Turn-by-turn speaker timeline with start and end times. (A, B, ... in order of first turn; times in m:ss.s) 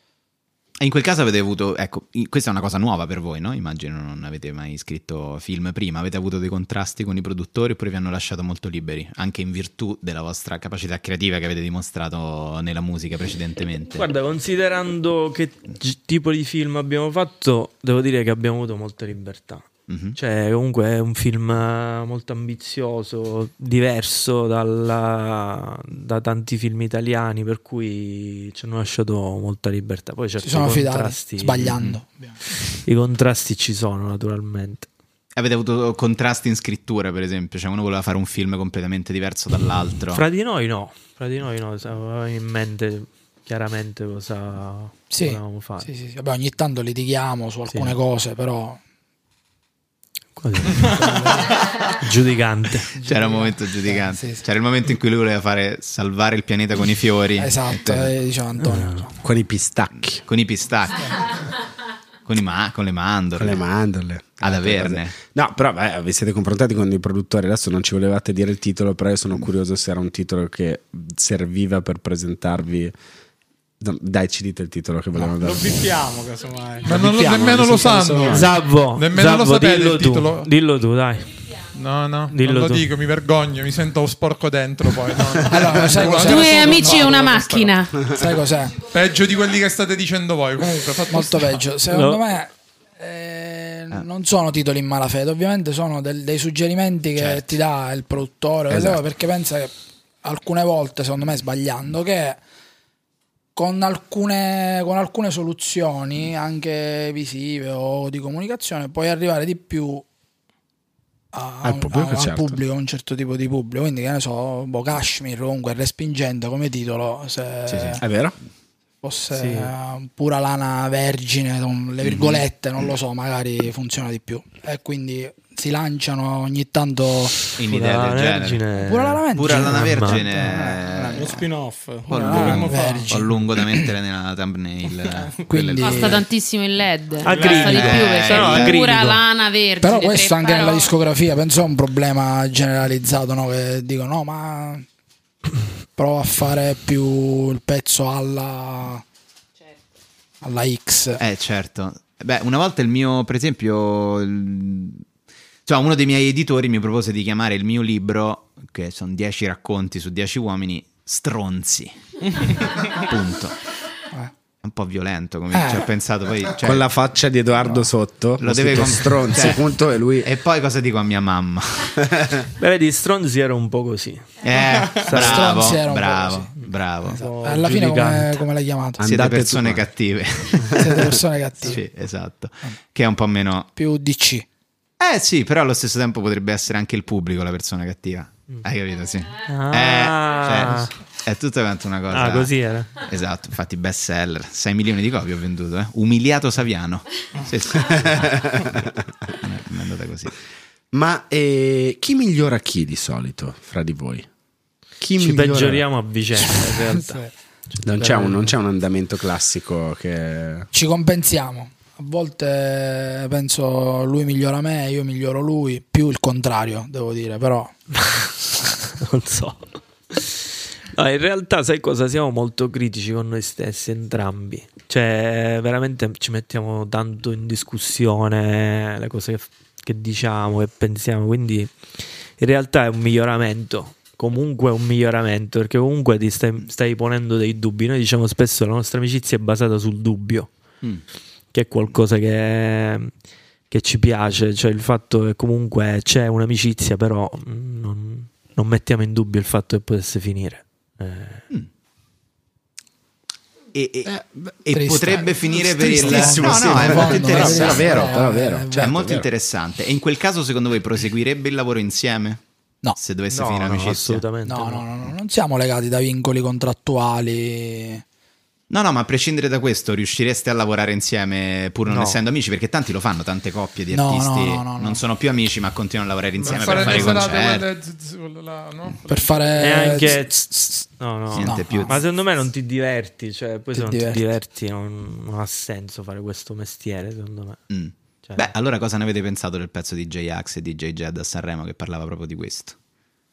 0:00.8-0:14.1 A
0:13.8-0:31.8 B
0:19.9-0:20.2 A
0:30.4-0:32.4 C
0:32.7-0:34.9 B
0:35.4-0:40.2 A
0:40.1-0:45.9 B
0:45.1-0:48.8 C
0:47.7-0:48.0 B
0:50.4-0:53.0 B
0:50.8-0:51.6 C
0:53.0-0:54.4 C
0:53.0-0:58.1 A
0:57.4-0:59.1 C
0:58.6-0:59.1 B
0:59.2-1:00.2 D
1:00.3-1:01.3 A
1:02.3-1:03.6 A
1:03.4-1:12.9 D
1:04.4-1:05.2 A
1:13.8-1:15.8 D
1:15.3-1:17.0 E
1:16.9-1:18.6 D
1:16.9-1:20.5 F
1:18.2-1:21.4 B
1:21.7-1:27.4 F
1:22.3-1:22.9 B
1:25.5-1:27.4 C
1:26.1-1:28.1 G
1:28.1-1:28.8 C
1:28.8-1:31.6 F
1:30.7-1:39.7 C
1:31.9-1:32.2 B
1:37.2-1:37.5 A
1:40.2-1:42.4 C
1:43.6-1:50.0 C
1:51.3-1:58.0 C
1:51.6-1:52.6 D
1:57.7-1:58.0 A
1:58.0-1:58.4 D
1:59.0-2:07.4 C
1:59.3-1:59.7 B
2:02.0-2:02.4 A
2:07.6-2:08.6 A
2:07.6-2:10.6 B
2:08.8-2:11.5 C
2:09.4-2:11.3 A
2:11.1-2:13.2 E
2:12.1-2:13.9 C
2:12.1-2:16.3 A
2:15.1-2:15.3 E
2:15.5-2:16.2 C
2:15.8-2:20.9 G
2:17.2-2:19.2 B
2:17.3-2:17.7 E
2:17.5-2:18.8 A
2:19.8-2:24.8 C
2:26.0-2:29.0 C
2:30.4-2:31.2 C
2:31.2-2:35.0 A
2:35.7-2:43.6 A
2:44.6-2:46.9 A
2:45.5-2:45.9 C
2:46.6-2:50.3 D
2:48.4-2:49.6 A
2:50.2-2:52.1 A
2:52.0-2:52.4 D
2:52.6-2:55.8 B
2:54.4-2:57.2 A
2:55.1-2:56.5 C
2:56.6-2:58.4 B
2:57.1-2:59.0 C
2:59.0-2:59.9 D
2:59.0-3:00.9 A
3:00.7-3:01.8 C
3:01.7-3:03.7 A
3:03.8-3:04.5 C
3:05.0-3:18.6 A
3:09.5-3:10.9 B
3:12.1-3:13.0 B
3:17.8-3:19.0 D
3:19.4-3:20.4 A
3:20.9-3:24.3 D
3:25.0-3:25.8 D
3:25.2-3:28.5 B
3:27.8-3:30.7 D
3:30.7-3:37.8 C
3:38.0-4:00.5 B
4:01.5-4:03.1 B
4:03.7-4:11.4 B
4:13.7-4:14.1 A
4:14.0-4:14.6 D
4:14.6-4:18.2 A
4:14.7-4:18.9 C
4:15.4-4:19.3 D
4:18.8-4:22.4 A
4:23.0-4:24.2 A
4:23.3-4:24.9 B
4:24.5-4:28.0 C
4:28.7-4:37.7 A
4:31.9-4:32.2 B
4:33.9-4:35.0 C
4:36.4-4:40.1 F
4:39.1-4:40.9 C
4:39.6-4:47.6 B
4:41.3-4:42.0 A
4:41.4-4:42.0 C
4:43.7-4:44.3 C
4:47.7-4:52.8 A